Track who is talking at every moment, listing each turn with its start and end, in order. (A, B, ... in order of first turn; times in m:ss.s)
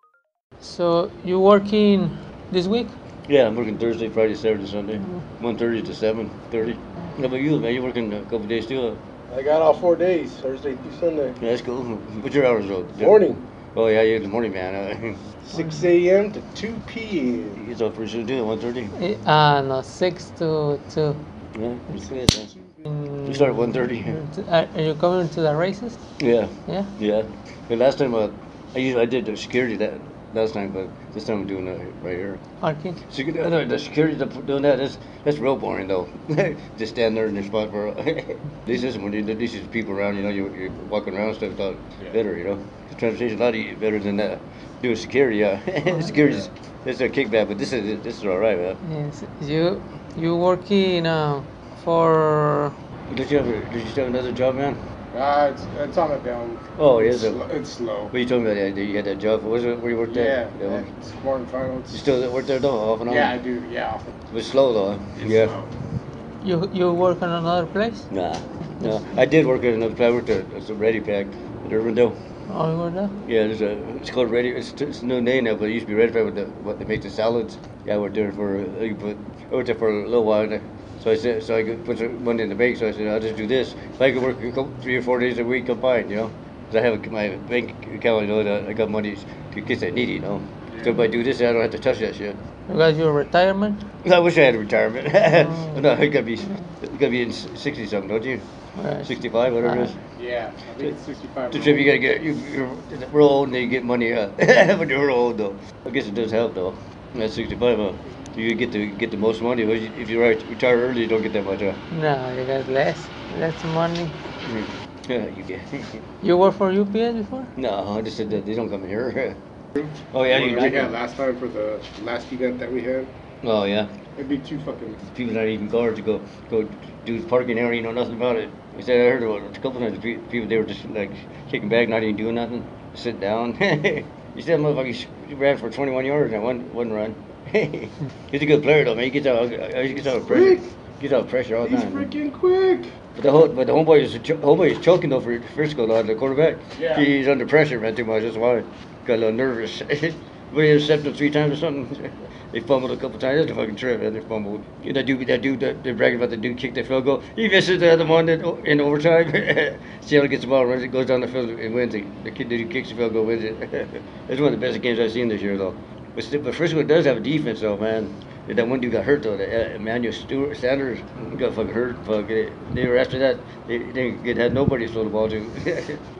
0:00.6-0:02.9 A
0:03.3-0:09.0 B
0:09.3-0:11.4 C
0:11.4-0:13.2 B
0:13.0-0:13.4 C
0:13.7-0:15.2 B
0:15.4-0:17.6 C
0:17.5-0:19.0 B
0:18.9-0:21.2 A
0:21.5-0:22.5 B
0:22.8-0:26.0 A
0:23.2-0:24.2 B
0:26.2-0:32.4 B
0:26.7-0:26.9 A
0:32.6-0:33.0 A
0:33.1-0:48.8 B
0:48.8-0:52.7 A
0:53.1-0:54.8 B
0:55.1-0:58.1 C
0:56.8-0:57.4 B
0:58.1-1:00.9 B
1:00.1-1:02.0 C
1:01.9-1:03.3 B
1:03.0-1:04.1 C
1:04.3-1:05.5 B
1:05.2-1:05.7 C
1:06.4-1:08.1 A
1:08.1-1:12.2 B
1:12.5-1:13.2 A
1:13.2-1:32.4 B
1:30.7-1:31.0 C
1:32.7-1:33.8 A
1:34.0-1:38.4 B
1:35.3-1:35.8 A
1:38.7-1:39.9 A
1:39.0-1:40.0 B
1:40.2-1:42.1 C
1:41.5-1:51.8 B
1:51.9-1:54.1 A
1:54.4-1:56.0 B
1:56.2-1:57.5 A
1:57.6-1:59.4 B
1:59.7-2:03.1 C
2:00.1-2:01.0 B
2:03.4-2:03.9 B
2:04.2-2:05.0 C
2:05.0-2:22.1 B
2:20.1-2:20.7 C
2:21.6-2:22.9 C
2:23.2-2:56.0 B
2:26.7-2:27.1 C